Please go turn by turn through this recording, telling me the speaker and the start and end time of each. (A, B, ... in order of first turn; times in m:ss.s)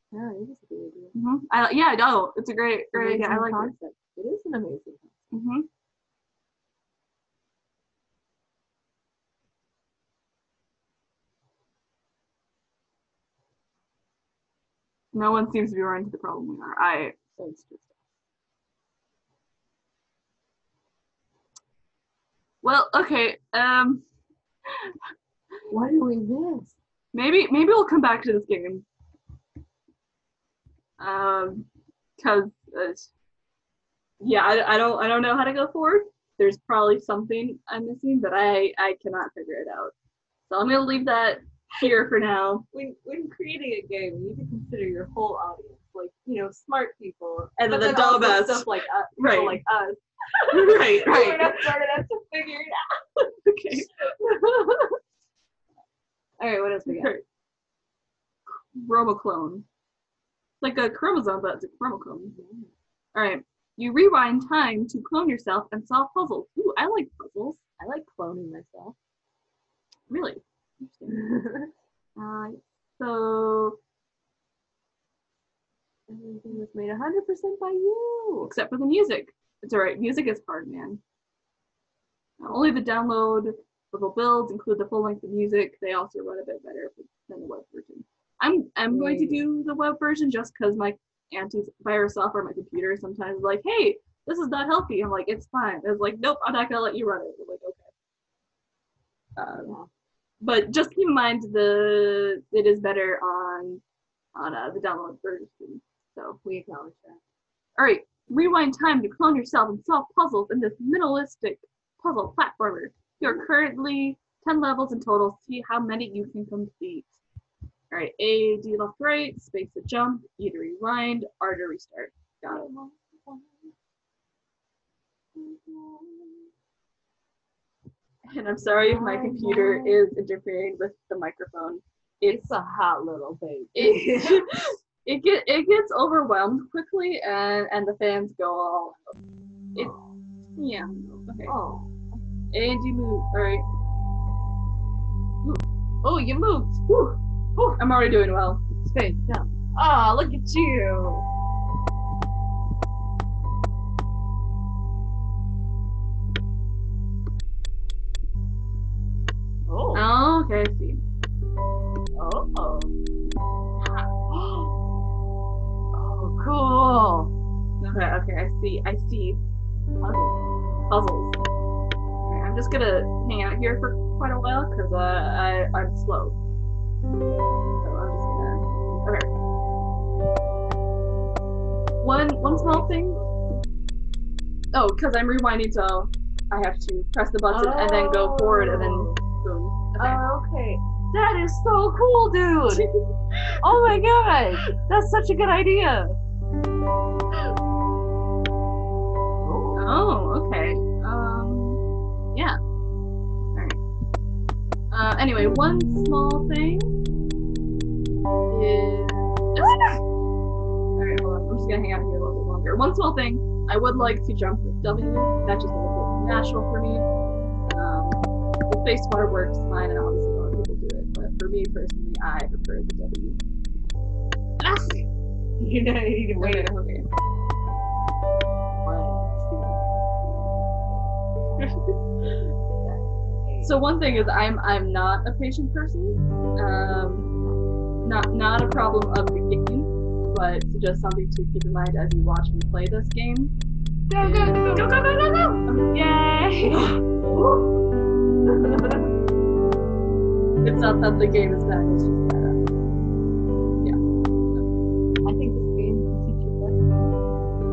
0:00.1-0:01.2 A
0:01.1-0:03.7 B
0:02.9-0:05.2 A
0:05.3-0:05.7 B
0:15.1-0:17.4 B
0:17.4-0:18.0 A
0:22.6-0:24.0 B
0:25.7-0:26.7 A
0:27.1-0:28.8 B
0:31.0-0:33.1 B
0:34.2-0:39.9 B
0:40.5-0:42.6 B
0:42.7-0:55.0 A
0:47.6-0:49.6 B
0:50.5-0:51.6 B
0:53.4-0:53.9 B
0:56.4-0:57.2 A
0:56.9-0:57.2 B
0:58.5-0:59.6 B
1:00.6-1:02.4 B
1:02.3-1:02.7 A
1:03.1-1:07.6 B
1:07.8-1:09.0 A
1:10.1-1:11.3 B
1:11.1-1:11.7 A
1:12.2-1:13.8 B
1:16.1-1:18.5 A
1:18.4-1:21.0 B
1:22.4-1:37.9 B
1:28.9-1:29.4 A
1:39.4-1:39.8 B
1:39.6-1:39.9 A
1:40.4-1:43.8 B
1:44.3-1:46.4 B
1:46.4-1:47.2 A
1:47.8-1:57.2 B
1:53.2-1:53.5 A
1:57.9-2:02.7 B
2:02.5-2:03.7 A
2:05.3-2:06.5 A
2:08.3-2:12.5 B
2:08.8-2:10.0 A
2:12.3-2:14.6 A
2:13.7-2:19.1 B
2:19.8-2:20.1 A
2:20.6-2:21.5 B
2:21.4-2:22.0 A
2:22.5-2:23.6 B
2:25.4-2:27.8 A
2:27.8-2:28.6 B
2:28.8-2:31.2 A
2:39.7-2:40.1 A
2:39.9-2:41.0 B
2:42.2-2:43.0 A
2:43.8-2:44.1 B
2:44.3-2:44.7 A
2:45.9-2:47.3 A
2:47.8-2:49.4 B
2:50.0-2:50.3 A
2:50.9-2:51.4 B
2:52.2-2:56.3 B
2:57.8-2:59.3 B
3:02.0-3:03.2 B
3:02.4-3:03.5 A
3:04.7-3:10.2 B
3:07.5-3:09.2 A
3:10.0-3:12.8 A
3:12.7-3:13.6 B
3:13.6-3:16.2 A
3:19.4-3:19.9 A
3:19.8-3:21.8 B
3:24.9-3:26.9 B
3:28.5-3:30.0 B
3:31.0-3:37.0 B
3:37.7-3:43.4 B
3:44.6-3:45.0 B
3:45.6-3:46.7 A
3:46.4-3:47.0 B
3:48.8-3:51.8 A
3:51.6-3:52.5 B
3:52.8-3:54.4 A
3:53.6-3:57.3 B
3:58.0-4:03.5 B
4:04.1-4:07.8 A
4:04.2-4:04.7 B
4:05.6-4:05.9 B
4:06.7-4:07.0 B
4:08.4-4:09.1 A
4:10.6-4:12.6 B
4:14.5-4:14.8 B
4:15.2-4:17.2 A